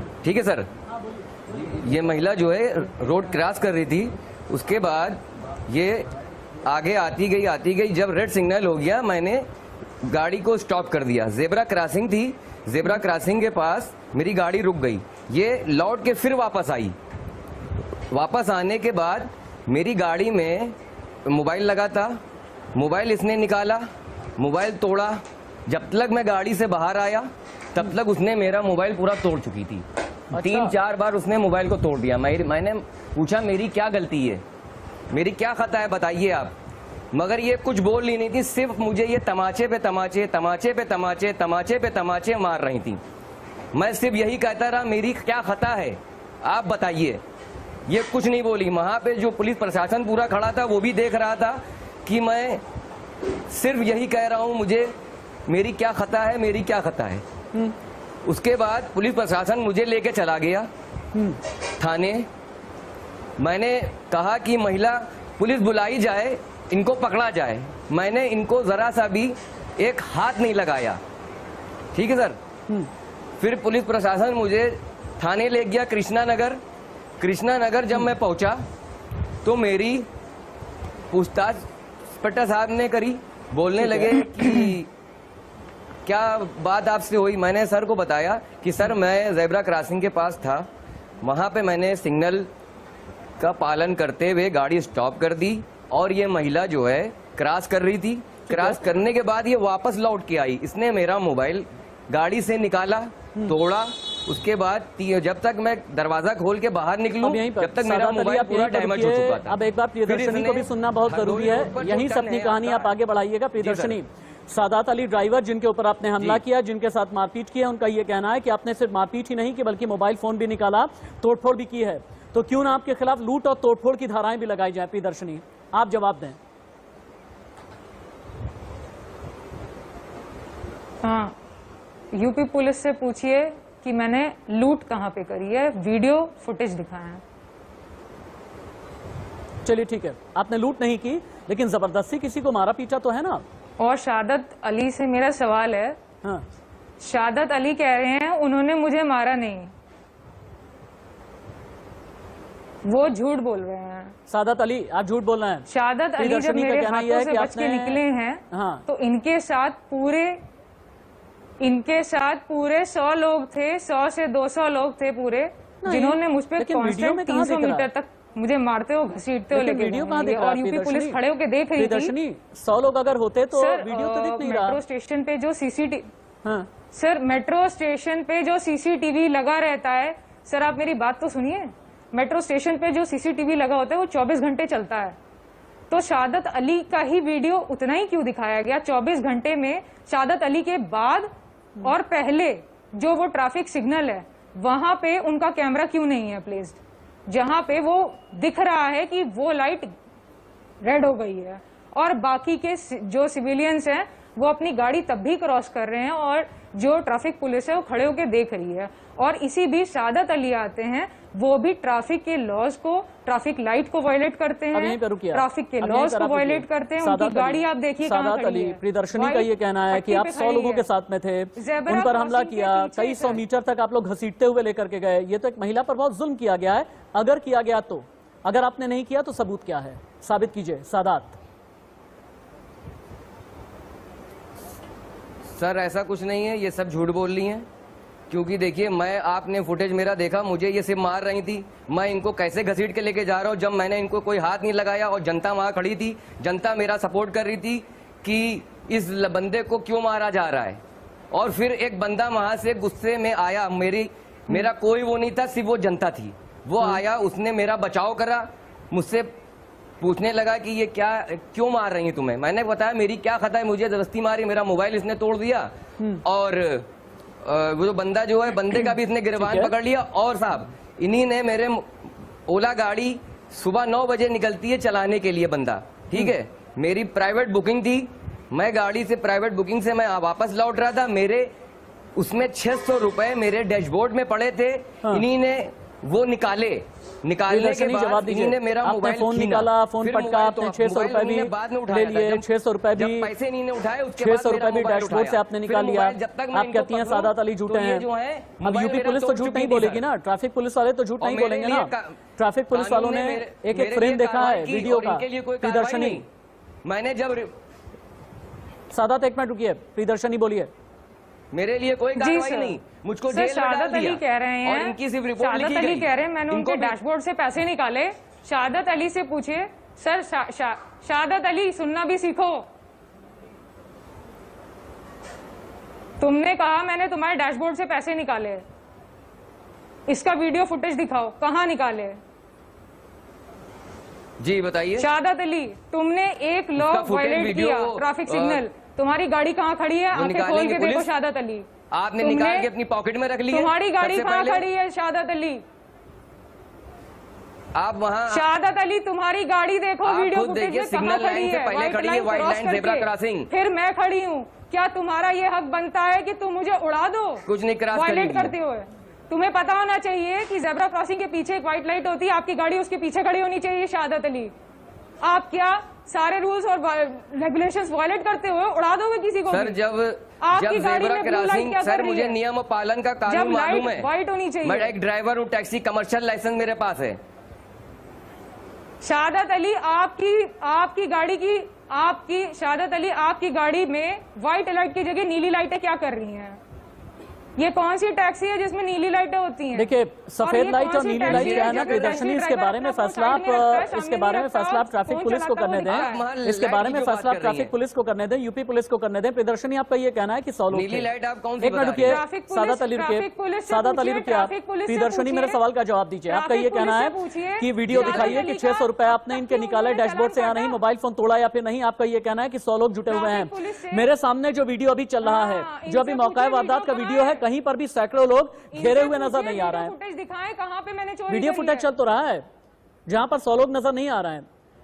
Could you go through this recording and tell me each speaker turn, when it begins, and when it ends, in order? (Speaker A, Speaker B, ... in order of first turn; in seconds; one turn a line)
Speaker A: 0.2-0.7
Speaker A: 1.6-6.1
Speaker A: 6.6-9.5
Speaker A: 10.0-16.9
Speaker A: 18.1-20.7
Speaker A: 21.3-22.2
Speaker A: 22.7-23.9
Speaker A: 24.4-34.4
Speaker B: 30.3-30.7
Speaker A: 35.1-36.5
Speaker A: 37.1-43.0
Speaker A: 43.7-47.2
Speaker A: 47.9-52.6
Speaker A: 53.5-54.9
Speaker A: 55.5-57.2
Speaker A: 58.2-60.7
Speaker B: 61.1-61.4
Speaker A: 61.8-62.3
Speaker A: 63.4-71.0
Speaker A: 71.9-72.4
Speaker A: 73.4-76.6
Speaker A: 77.2-78.6
Speaker A: 79.4-80.1
Speaker A: 81.1-84.9
Speaker B: 83.8-84.7
Speaker A: 86.0-90.7
Speaker A: 91.2-92.5
Speaker A: 93.4-112.9
Speaker B: 98.5-98.8
Speaker B: 107.2-126.4
Speaker A: 113.6-114.0
Speaker C: 131.0-131.3
Speaker C: 132.1-137.2
Speaker B: 139.6-143.4
Speaker C: 143.8-146.0
Speaker C: 147.0-149.7
Speaker C: 152.8-154.1
Speaker B: 154.3-155.7
Speaker C: 155.7-160.4
Speaker B: 156.2-158.8
Speaker C: 161.6-172.1
Speaker B: 165.8-167.9
Speaker B: 169.5-171.2
Speaker B: 171.8-174.8
Speaker C: 173.5-176.1
Speaker B: 176.4-176.7
Speaker C: 176.9-185.2
Speaker C: 185.9-199.9
Speaker C: 200.8-220.9
Speaker B: 214.7-231.4
Speaker C: 221.6-223.4
Speaker A: 235.5-237.7
Speaker A: 238.3-250.8
Speaker A: 251.3-259.3
Speaker A: 260.0-265.7
Speaker A: 266.2-266.9
Speaker A: 267.4-271.9
Speaker B: 269.4-269.7
Speaker A: 272.5-281.5
Speaker A: 282.1-300.0
Speaker B: 287.5-293.3
Speaker B: 294.2-298.1
Speaker B: 298.6-306.2
Speaker A: 301.2-302.2
Speaker A: 302.7-306.2
Speaker A: 306.8-307.5
Speaker B: 308.9-310.7
Speaker A: 311.5-316.9
Speaker C: 312.1-312.8
Speaker C: 313.3-322.6
Speaker C: 326.2-328.6
Speaker C: 330.1-332.2
Speaker A: 334.4-335.1
Speaker C: 335.0-341.6
Speaker A: 336.8-338.6
Speaker A: 340.1-341.1
Speaker A: 341.9-344.6
Speaker C: 342.2-342.7
Speaker C: 343.5-345.6
Speaker A: 347.7-348.4
Speaker C: 348.3-364.5
Speaker A: 350.0-353.5
Speaker A: 357.4-358.5
Speaker C: 365.2-369.8
Speaker A: 369.5-374.1
Speaker C: 370.4-372.4
Speaker C: 373.3-374.9
Speaker A: 374.6-377.2
Speaker C: 379.0-386.6
Speaker C: 387.6-396.2
Speaker B: 389.7-401.1
Speaker A: 391.3-392.2
Speaker A: 395.9-397.7
Speaker A: 400.7-402.2
Speaker B: 401.6-419.9
Speaker C: 402.0-405.6
Speaker C: 406.3-410.8
Speaker A: 407.9-408.5
Speaker C: 413.1-414.1
Speaker C: 415.2-417.4
Speaker C: 418.7-421.9
Speaker B: 421.3-422.4
Speaker B: 423.1-424.4